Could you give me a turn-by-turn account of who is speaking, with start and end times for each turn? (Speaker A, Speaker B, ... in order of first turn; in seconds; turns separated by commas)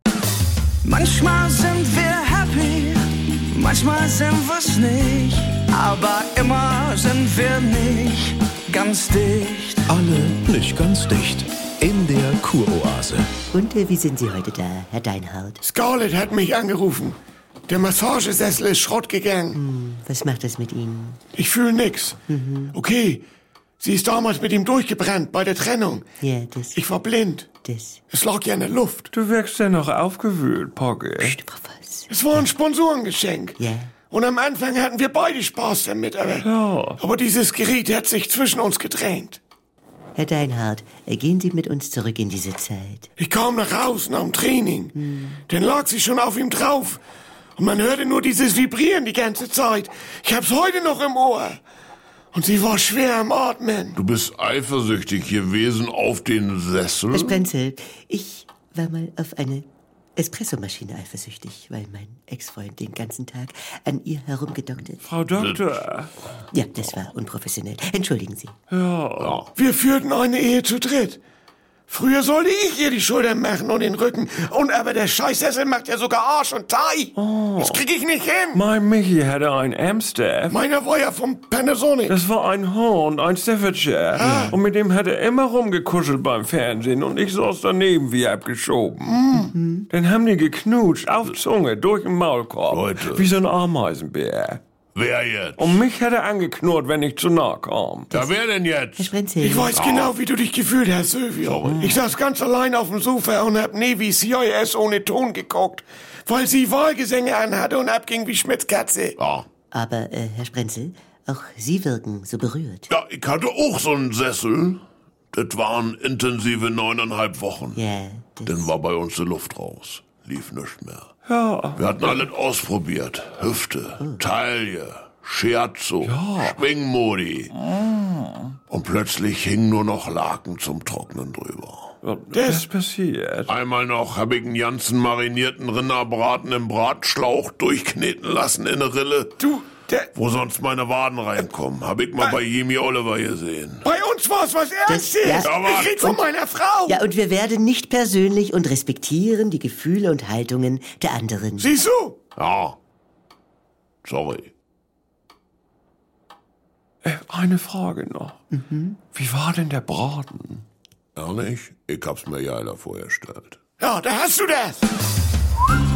Speaker A: 0.8-9.8, Speaker B: 9.9-13.3, Speaker C: 13.5-15.6, Speaker D: 15.6-17.2, Speaker D: 17.7-19.6, Speaker C: 19.5-21.2, Speaker D: 21.4-22.2, Speaker C: 22.3-22.7, Speaker D: 22.7-23.2, Speaker D: 23.8-26.0, Speaker C: 26.2-26.8, Speaker D: 26.7-27.5, Speaker C: 27.6-28.0, Speaker D: 28.1-29.1, Speaker E: 29.1-31.4, Speaker C: 31.2-32.4, Speaker D: 32.1-33.6, Speaker C: 33.6-33.9, Speaker D: 34.1-36.5, Speaker E: 36.4-37.0, Speaker D: 37.0-39.4, Speaker C: 40.1-43.1, Speaker D: 43.2-44.9, Speaker C: 45.0-45.4, Speaker D: 45.5-47.0, Speaker D: 47.6-51.6, Speaker D: 52.3-54.0, Speaker F: 53.9-57.4, Speaker C: 57.1-59.6, Speaker C: 60.2-65.1, Speaker E: 65.0-66.1, Speaker F: 65.3-65.6, Speaker C: 66.5-68.5, Speaker E: 68.7-69.4, Speaker F: 69.2-69.5, Speaker D: 69.5-71.2, Speaker D: 71.9-78.6, Speaker E: 77.2-77.8, Speaker E: 78.5-80.6, Speaker D: 80.5-82.2, Speaker E: 82.1-89.1, Speaker D: 84.2-84.6, Speaker C: 84.2-84.6, Speaker D: 89.0-89.5, Speaker C: 89.3-89.9, Speaker E: 89.9-94.6, Speaker F: 92.7-93.3, Speaker F: 94.9-95.8, Speaker E: 95.6-98.1, Speaker F: 98.1-99.1, Speaker C: 99.0-99.8, Speaker D: 99.4-109.2, Speaker F: 99.7-100.1, Speaker F: 101.5-101.8, Speaker F: 109.2-109.5, Speaker C: 109.7-112.9, Speaker F: 112.9-114.8, Speaker F: 115.3-117.8, Speaker C: 117.8-118.7, Speaker F: 118.5-121.1, Speaker E: 121.3-122.1, Speaker F: 121.8-127.5, Speaker E: 126.0-126.6, Speaker E: 127.9-128.2, Speaker F: 128.7-131.9, Speaker E: 132.0-133.5, Speaker D: 132.3-132.7, Speaker F: 133.5-139.4, Speaker D: 139.4-140.1, Speaker F: 140.1-143.9, Speaker D: 143.8-147.0, Speaker C: 144.9-146.2, Speaker F: 145.5-145.9, Speaker C: 146.8-151.7, Speaker D: 151.6-152.2, Speaker F: 152.3-152.8, Speaker F: 154.0-154.5, Speaker E: 157.0-158.4, Speaker C: 158.5-159.0, Speaker E: 159.1-160.6, Speaker F: 161.2-163.6, Speaker D: 163.8-164.9